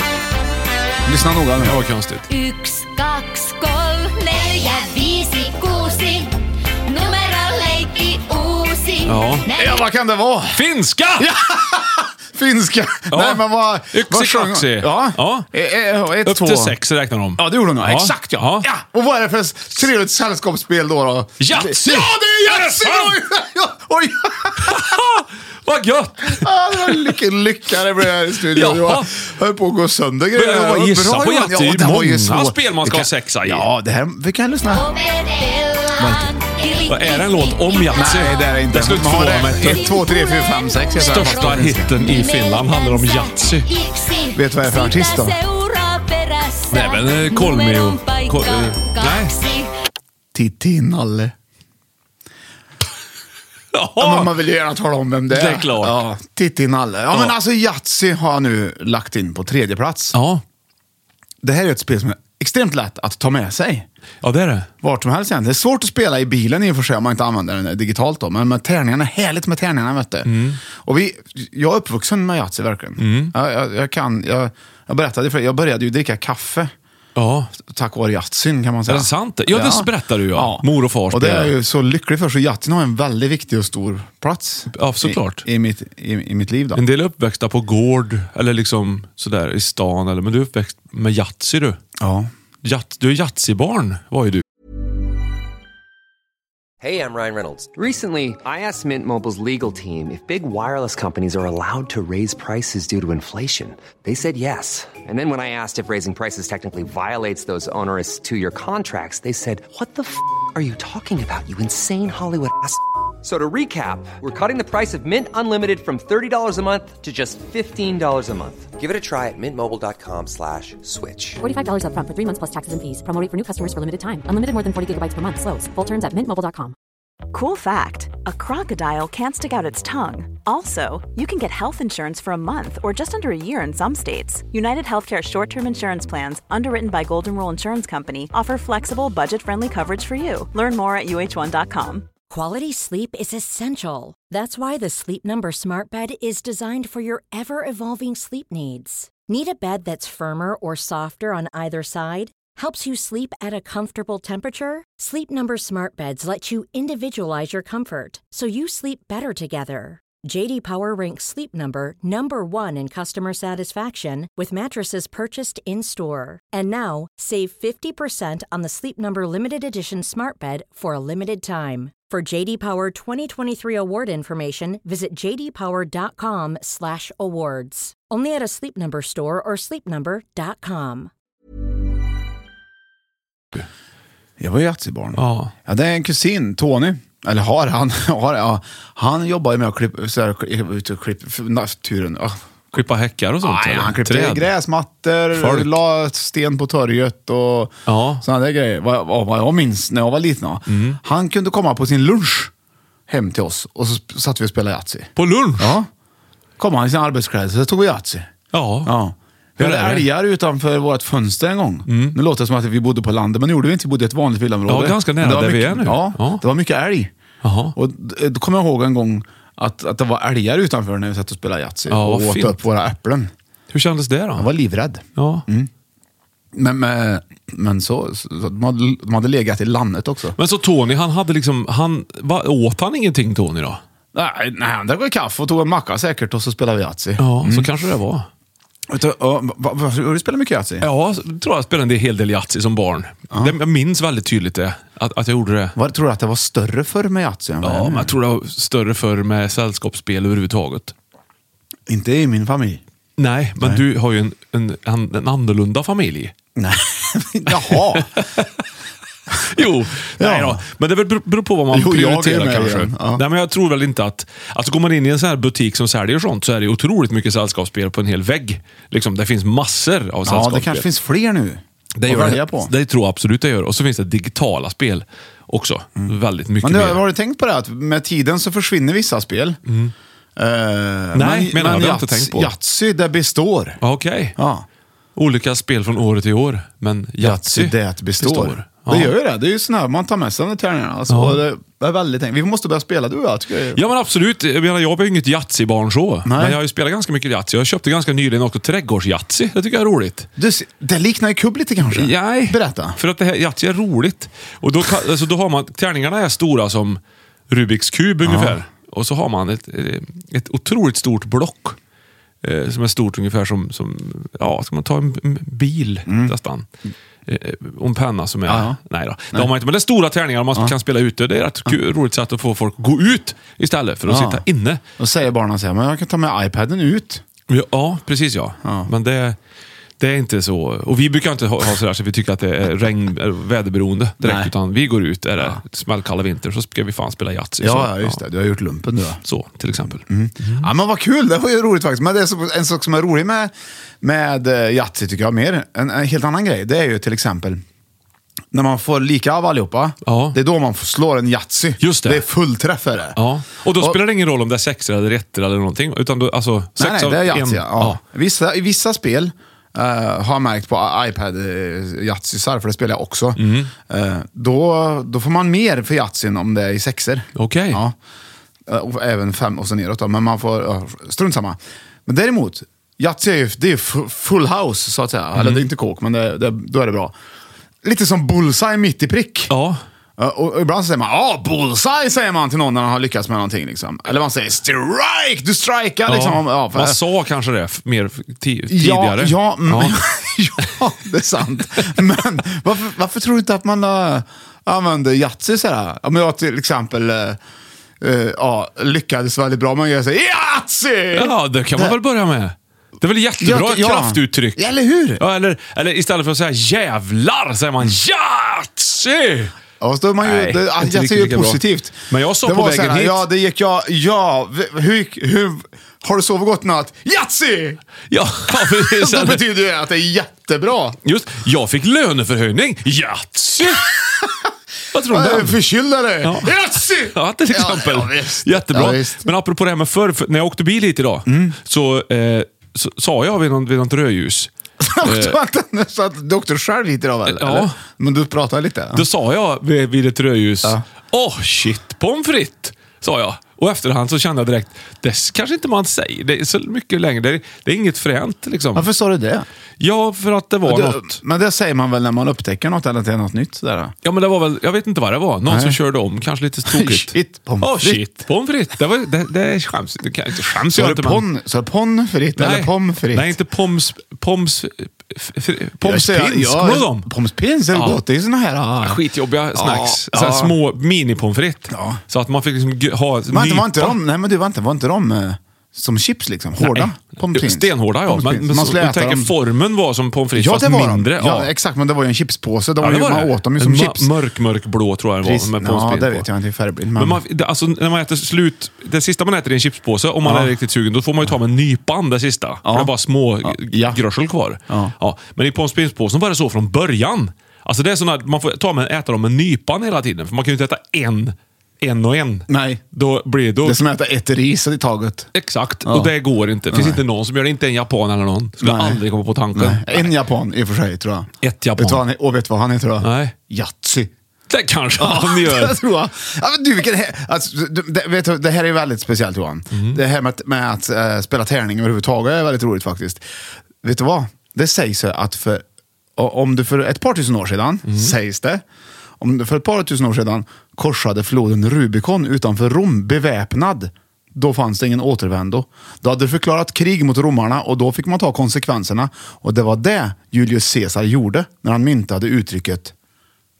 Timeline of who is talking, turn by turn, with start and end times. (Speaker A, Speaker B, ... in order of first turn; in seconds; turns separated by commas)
Speaker A: 1.0-1.8, Speaker B: 1.6-2.2, Speaker C: 2.3-9.8, Speaker B: 9.0-9.5, Speaker A: 9.5-10.6, Speaker B: 10.5-11.3, Speaker A: 11.2-16.8, Speaker B: 13.1-15.4, Speaker B: 16.2-18.7, Speaker A: 17.4-24.9, Speaker B: 21.4-23.2, Speaker B: 24.6-27.1, Speaker A: 26.4-34.9, Speaker B: 28.5-29.1, Speaker B: 30.3-33.6, Speaker C: 34.7-38.4, Speaker A: 36.0-36.3, Speaker B: 36.9-40.0, Speaker A: 37.9-42.0, Speaker C: 39.3-49.7, Speaker B: 41.0-43.7, Speaker A: 44.3-45.4, Speaker B: 46.7-49.4, Speaker A: 50.3-51.3, Speaker B: 53.7-54.3, Speaker A: 54.0-60.2, Speaker B: 55.3-56.0, Speaker B: 60.1-60.4, Speaker A: 61.4-63.9, Speaker B: 64.2-64.7, Speaker A: 64.8-76.7, Speaker B: 70.2-70.6, Speaker B: 73.0-73.3, Speaker B: 77.2-77.5, Speaker A: 77.6-86.8, Speaker B: 78.9-81.5, Speaker B: 84.7-85.4, Speaker B: 86.7-91.8, Speaker A: 92.0-92.3, Speaker B: 92.6-94.4, Speaker D: 96.8-121.4, Speaker E: 121.4-126.7, Speaker F: 127.3-142.1, Speaker G: 142.3-181.1, Speaker A: 184.4-192.8, Speaker B: 185.2-185.5, Speaker B: 192.7-194.5, Speaker A: 193.4-202.5, Speaker B: 195.3-195.7, Speaker B: 197.9-198.2, Speaker B: 200.7-201.0, Speaker A: 203.1-205.9, Speaker B: 205.2-205.8, Speaker A: 206.6-208.3, Speaker B: 208.5-208.9, Speaker A: 208.8-217.1, Speaker B: 209.6-210.1, Speaker B: 211.9-212.2, Speaker B: 214.7-216.4, Speaker B: 217.4-217.8, Speaker A: 217.7-223.3, Speaker B: 221.9-222.6, Speaker B: 223.7-224.5, Speaker A: 224.4-225.7, Speaker B: 225.2-225.4, Speaker A: 226.5-230.4, Speaker B: 230.4-233.8, Speaker A: 234.1-237.7, Speaker B: 237.2-238.3, Speaker A: 238.9-240.8, Speaker B: 240.8-245.8, Speaker A: 245.8-248.1, Speaker B: 247.6-250.9, Speaker A: 251.9-252.8, Speaker B: 253.2-256.3, Speaker A: 256.6-258.2, Speaker B: 257.5-258.5, Speaker B: 259.4-270.9, Speaker A: 260.2-260.6, Speaker A: 261.7-263.2, Speaker A: 270.2-272.7, Speaker B: 272.0-277.0, Speaker A: 276.0-279.6, Speaker B: 279.7-279.9, Speaker A: 280.4-283.8, Speaker B: 281.1-282.5, Speaker B: 283.8-284.4, Speaker A: 284.4-284.6, Speaker B: 285.1-289.1, Speaker A: 287.2-293.8, Speaker B: 291.1-291.4, Speaker B: 293.7-300.3, Speaker A: 296.2-296.6, Speaker A: 300.4-303.0, Speaker B: 301.9-311.8, Speaker A: 308.2-308.6, Speaker B: 312.4-316.6, Speaker A: 316.1-316.3, Speaker B: 317.3-324.8, Speaker A: 318.5-318.8, Speaker A: 324.1-324.4, Speaker A: 325.0-327.2, Speaker B: 327.5-329.4, Speaker A: 328.6-328.9, Speaker B: 330.0-338.2, Speaker A: 334.2-334.5, Speaker A: 337.6-339.2, Speaker B: 339.2-340.7, Speaker A: 340.1-347.6, Speaker A: 348.5-353.2, Speaker B: 350.1-350.4, Speaker B: 351.8-352.2, Speaker B: 353.1-358.0, Speaker A: 356.8-367.9, Speaker B: 363.4-363.7, Speaker B: 367.4-367.8, Speaker A: 368.7-377.1, Speaker B: 375.4-375.7, Speaker A: 377.8-379.5, Speaker B: 379.5-379.8, Speaker A: 380.2-387.0, Speaker B: 386.1-390.0, Speaker A: 388.7-397.4, Speaker A: 398.0-401.9, Speaker B: 401.1-409.5, Speaker A: 403.4-405.2, Speaker A: 409.8-417.8, Speaker B: 410.2-413.2, Speaker B: 418.1-419.4, Speaker A: 418.5-421.0, Speaker B: 421.0-424.0, Speaker B: 424.9-425.6, Speaker A: 425.1-429.2, Speaker B: 426.2-434.5, Speaker A: 431.2-431.6, Speaker A: 434.8-439.1, Speaker B: 435.0-435.4, Speaker B: 437.3-437.8, Speaker B: 438.9-448.9, Speaker A: 448.7-449.4, Speaker B: 449.8-451.2, Speaker A: 450.6-453.9, Speaker B: 454.0-461.2, Speaker A: 455.4-455.8, Speaker A: 456.7-458.1, Speaker A: 460.7-463.3, Speaker B: 462.4-467.1, Speaker A: 465.8-469.0, Speaker B: 467.7-468.0, Speaker B: 468.8-474.0, Speaker A: 469.5-470.6, Speaker A: 471.7-472.0, Speaker A: 473.3-479.3, Speaker B: 476.6-481.5, Speaker A: 480.3-484.1, Speaker B: 482.8-486.2, Speaker A: 485.2-487.2, Speaker B: 486.9-503.8, Speaker A: 490.2-490.5, Speaker A: 492.6-494.0, Speaker A: 494.7-494.9, Speaker A: 502.5-502.8, Speaker A: 503.6-505.3, Speaker B: 505.3-510.1, Speaker A: 505.9-506.1, Speaker A: 506.7-507.0, Speaker A: 508.6-509.0, Speaker A: 509.5-514.1, Speaker B: 511.4-512.0, Speaker B: 513.0-513.3, Speaker B: 514.5-515.8, Speaker A: 515.0-523.2, Speaker B: 519.7-520.0, Speaker A: 523.8-525.6, Speaker A: 526.2-528.6, Speaker B: 527.9-528.1, Speaker A: 529.2-542.9